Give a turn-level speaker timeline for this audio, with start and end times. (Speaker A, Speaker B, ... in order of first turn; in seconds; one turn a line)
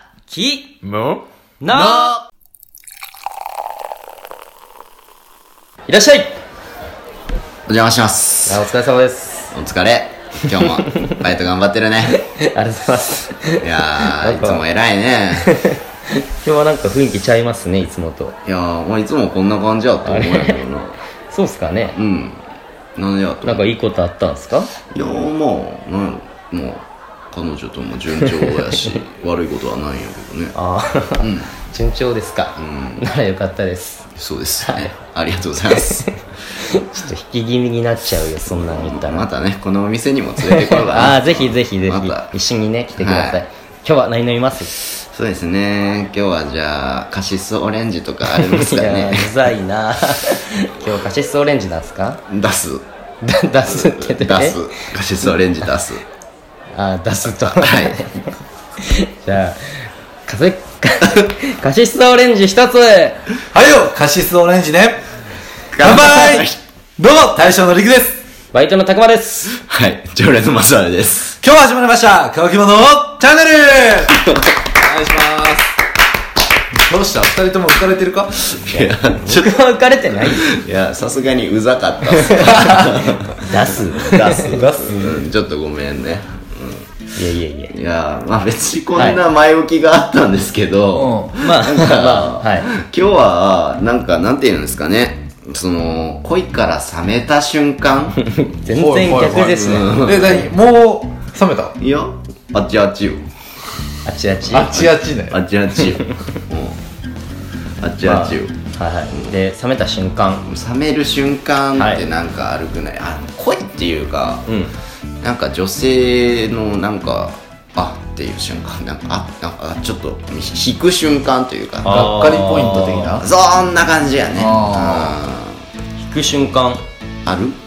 Speaker A: 0.3-2.2
Speaker B: 1.7-2.1
Speaker A: 5.9-6.3
Speaker C: 7.7-8.7
Speaker A: 8.5-9.5
Speaker C: 9.5-12.2
Speaker A: 12.4-14.6
Speaker C: 13.6-15.5
Speaker A: 15.4-15.8
Speaker A: 16.4-18.4
Speaker C: 18.4-21.0
Speaker A: 20.1-20.6
Speaker A: 21.3-22.0
Speaker C: 21.9-22.4
Speaker C: 23.0-23.7
Speaker A: 23.4-24.7
Speaker C: 24.9-30.6
Speaker A: 28.2-29.0
Speaker A: 30.5-34.1
Speaker C: 31.2-31.5
Speaker C: 32.6-33.0
Speaker C: 34.2-36.1
Speaker A: 34.6-34.9
Speaker A: 35.8-39.3
Speaker C: 38.5-42.4
Speaker A: 40.4-44.7
Speaker C: 43.0-43.4
Speaker C: 44.9-49.3
Speaker A: 48.4-52.2
Speaker C: 52.3-52.8
Speaker A: 53.2-54.6
Speaker C: 53.6-56.0
Speaker A: 56.7-58.1
Speaker C: 57.4-58.0
Speaker A: 58.8-63.2
Speaker B: 63.5-65.0
Speaker C: 65.7-66.6
Speaker B: 65.8-68.2
Speaker A: 68.5-69.5
Speaker C: 69.5-71.4
Speaker B: 71.4-75.7
Speaker B: 76.8-78.7
Speaker C: 78.6-79.5
Speaker A: 79.2-80.5
Speaker C: 80.2-87.0
Speaker A: 83.5-85.2
Speaker A: 87.2-87.7
Speaker C: 87.7-98.2
Speaker A: 89.0-89.2
Speaker B: 90.9-91.3
Speaker A: 91.4-92.7
Speaker A: 98.3-99.9
Speaker B: 98.7-101.8
Speaker C: 99.6-100.5
Speaker C: 101.8-103.3
Speaker A: 104.0-104.7
Speaker B: 104.5-105.4
Speaker C: 104.5-106.8
Speaker C: 107.8-108.5
Speaker A: 108.0-110.5
Speaker C: 110.5-114.5
Speaker A: 111.8-112.0
Speaker A: 114.5-114.7
Speaker C: 115.2-122.1
Speaker A: 121.8-123.0
Speaker B: 121.8-123.2
Speaker C: 123.1-125.6
Speaker B: 124.4-125.2
Speaker A: 126.0-126.8
Speaker C: 127.2-127.6